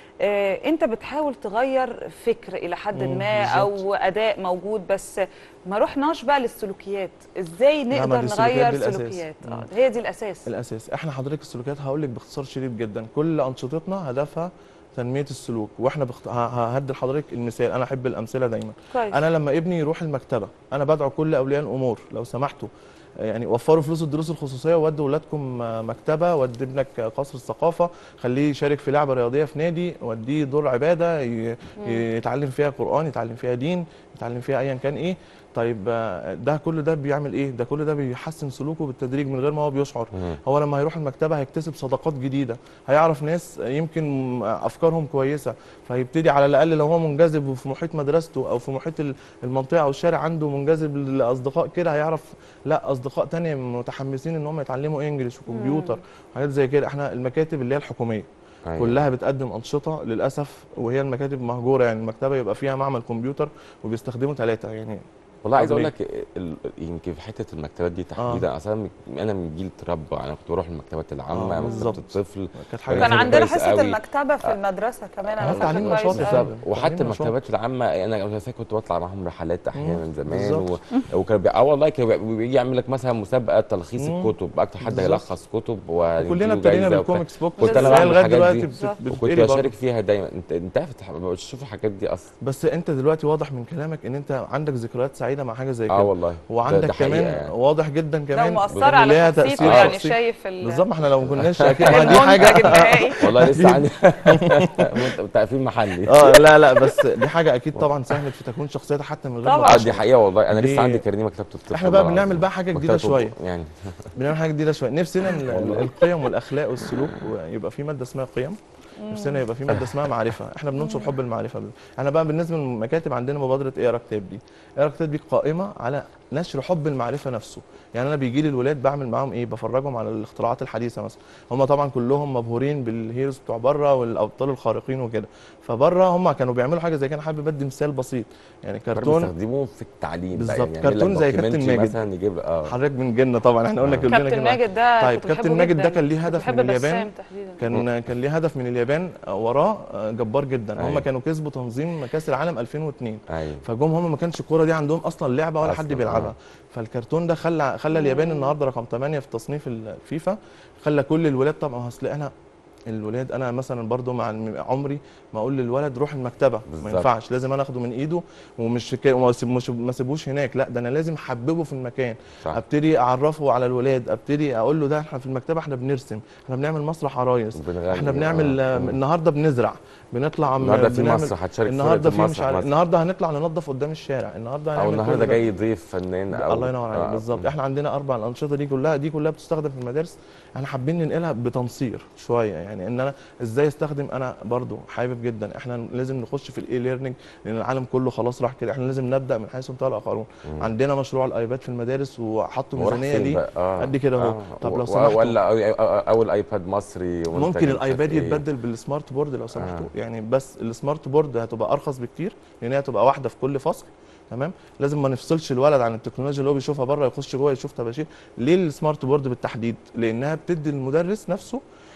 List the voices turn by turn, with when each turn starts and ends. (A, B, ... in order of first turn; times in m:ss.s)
0:00.2-0:05.1 A
0:02.9-0:03.8 B
0:05.7-0:10.5 A
0:07.9-0:09.7 B
0:10.4-0:22.7 B
0:18.9-0:19.2 A
0:23.2-1:05.0 B
0:31.8-0:32.0 A
0:40.1-0:40.4 C
0:55.5-0:56.0 A
0:58.7-0:59.0 C
1:05.4-1:14.0 C
1:05.6-1:05.9 B
1:08.2-1:08.4 B
1:11.3-1:12.0 B
1:11.6-1:11.9 A
1:12.5-1:13.4 B
1:13.0-1:16.5 A
1:15.4-1:32.3 C
1:15.4-1:17.4 B
1:19.7-1:20.7 B
1:24.0-1:25.2 B
1:26.2-1:29.7 B
1:27.6-1:28.1 A
1:28.7-1:29.0 A
1:32.4-1:45.1 B
1:35.9-1:37.5 C
1:38.3-1:40.8 A
1:38.7-1:40.0 C
1:41.2-1:47.0 C
1:41.8-1:43.2 A
1:46.0-1:51.0 B
1:49.4-1:49.9 A
1:49.6-1:54.1 C
1:51.7-1:53.3 B
1:54.2-1:58.6 B
1:55.4-1:56.3 C
1:59.0-1:59.4 A
1:59.1-2:19.3 B
2:00.8-2:01.2 A
2:18.9-2:22.7 C
2:20.3-2:22.0 B
2:22.6-2:42.3 B
2:23.8-2:24.1 C
2:24.1-2:27.6 A
2:30.8-2:31.0 C
2:33.3-2:33.6 C
2:35.6-2:36.3 C
2:37.9-2:38.5 A
2:42.9-3:05.4 B
2:46.7-2:47.1 C
2:57.6-2:59.0 C
3:00.6-3:02.7 C
3:04.8-3:07.5 C
3:06.3-3:25.4 B
3:20.4-3:20.7 C
3:22.8-3:28.4 C
3:27.3-3:41.6 B
3:29.5-3:29.9 C